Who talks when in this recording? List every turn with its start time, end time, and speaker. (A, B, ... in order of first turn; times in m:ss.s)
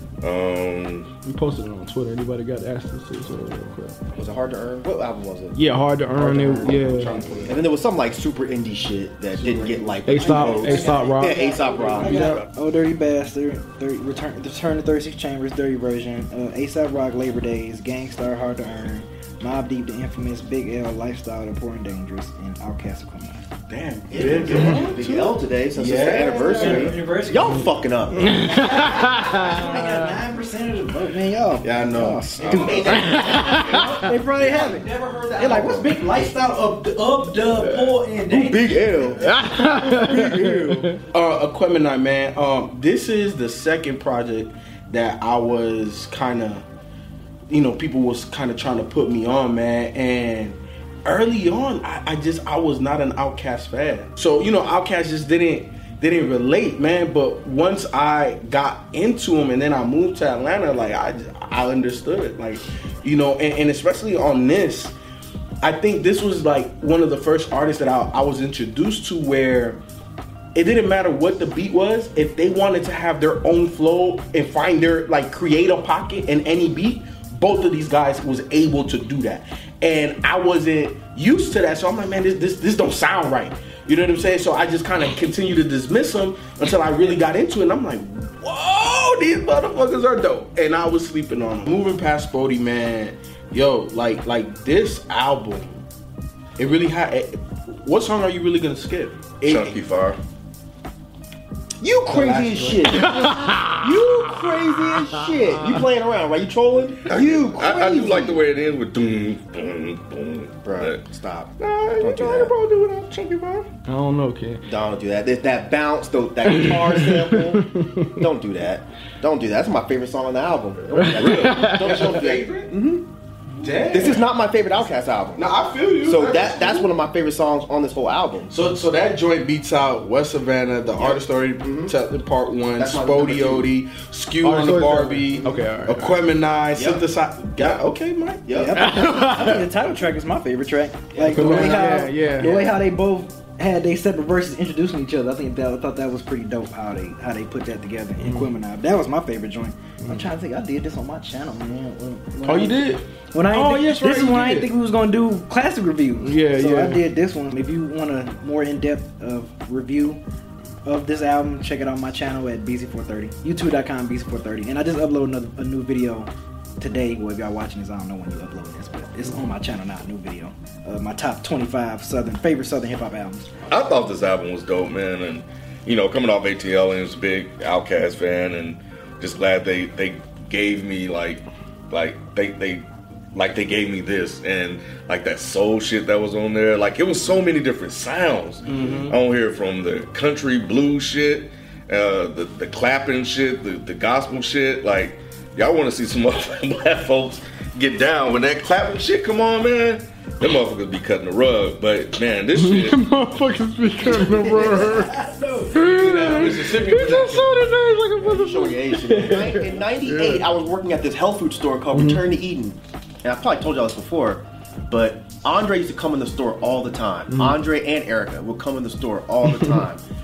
0:00.2-0:01.1 A
0:01.2-0:04.0 B
0:04.2-0:05.6 C
0:05.5-0:07.2 B
0:06.2-0:06.8 C
0:06.7-0:07.6 D
0:07.0-0:07.5 A
0:07.5-0:12.4 C
0:10.0-0:12.4 B
0:10.1-0:23.5 E
0:23.7-0:25.1 D
0:24.1-0:28.4 C
0:24.6-0:24.9 E
0:25.7-0:26.9 D
0:26.4-0:27.7 E
0:28.2-0:39.4 E
0:28.3-0:30.0 B
0:31.6-0:33.6 D
0:32.3-0:33.8 A
0:33.0-0:34.1 B
0:34.4-0:35.9 C
0:38.3-0:40.9 C
0:39.2-0:40.9 B
0:39.9-0:40.7 E
0:41.1-0:46.7 D
0:47.5-1:05.0 D
1:05.6-1:09.8 D
1:10.5-1:35.8 D
1:36.6-1:39.7 D
1:39.4-1:40.2 A
1:41.8-1:48.4 C
1:42.1-1:43.1 D
1:43.4-1:43.8 B
1:47.0-1:51.0 A
1:50.6-1:52.5 C
1:51.6-1:53.7 A
1:53.9-1:54.6 B
1:54.6-2:03.0 C
1:56.6-1:58.2 B
2:00.9-2:02.0 B
2:01.1-2:01.6 A
2:01.6-2:02.7 D
2:03.6-2:04.2 D
2:03.9-2:05.5 C
2:05.4-2:06.9 D
2:06.0-2:08.5 C
2:08.5-2:18.5 D
2:11.0-2:11.9 C
2:12.8-2:13.7 C
2:14.4-2:16.2 B
2:16.7-2:17.0 C
2:18.5-2:18.9 C
2:18.5-2:32.8 E
2:18.7-2:19.7 B
2:21.1-2:22.7 C
2:21.3-2:22.7 B
2:28.2-2:28.6 B
2:32.4-2:34.7 D
2:33.3-2:40.2 E
2:36.2-2:37.0 B
2:40.8-2:53.5 E
2:53.7-3:23.1 A
3:08.6-3:09.2 D
3:22.5-3:25.1 B
3:24.0-3:25.6 C
3:24.2-3:25.8 E
3:25.7-3:30.4 B
3:25.9-3:27.6 D
3:26.2-3:27.1 A
3:28.2-3:40.0 C
3:31.9-3:32.2 B
3:37.3-3:37.6 B